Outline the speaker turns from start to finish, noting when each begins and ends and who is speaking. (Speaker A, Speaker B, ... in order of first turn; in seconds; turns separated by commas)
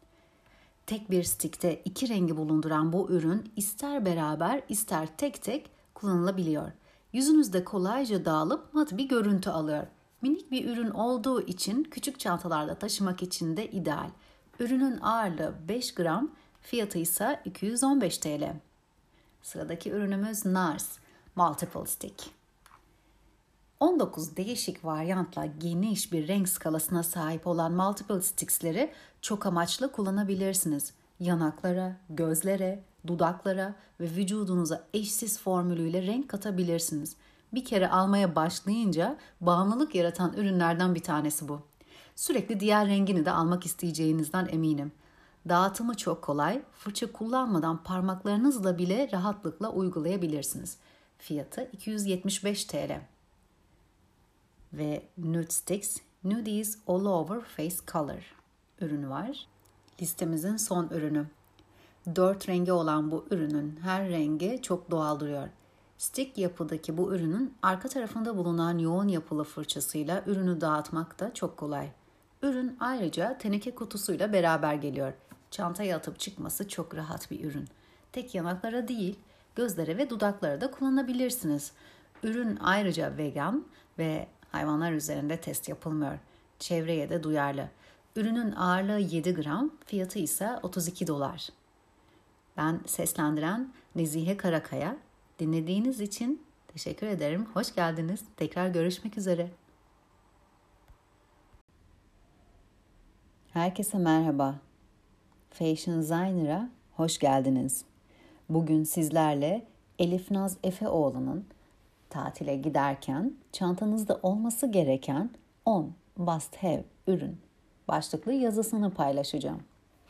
Speaker A: 0.8-18.6, Speaker A: 19.4-22.3, Speaker A: 23.8-41.6, Speaker A: 42.1-44.9, Speaker A: 45.4-53.0, Speaker A: 54.7-59.5, Speaker A: 60.0-61.3, Speaker A: 62.1-91.5, Speaker A: 92.5-99.5, Speaker A: 103.5-104.6, Speaker A: 105.5-107.8, Speaker A: 108.5-111.5, Speaker A: 112.1-119.6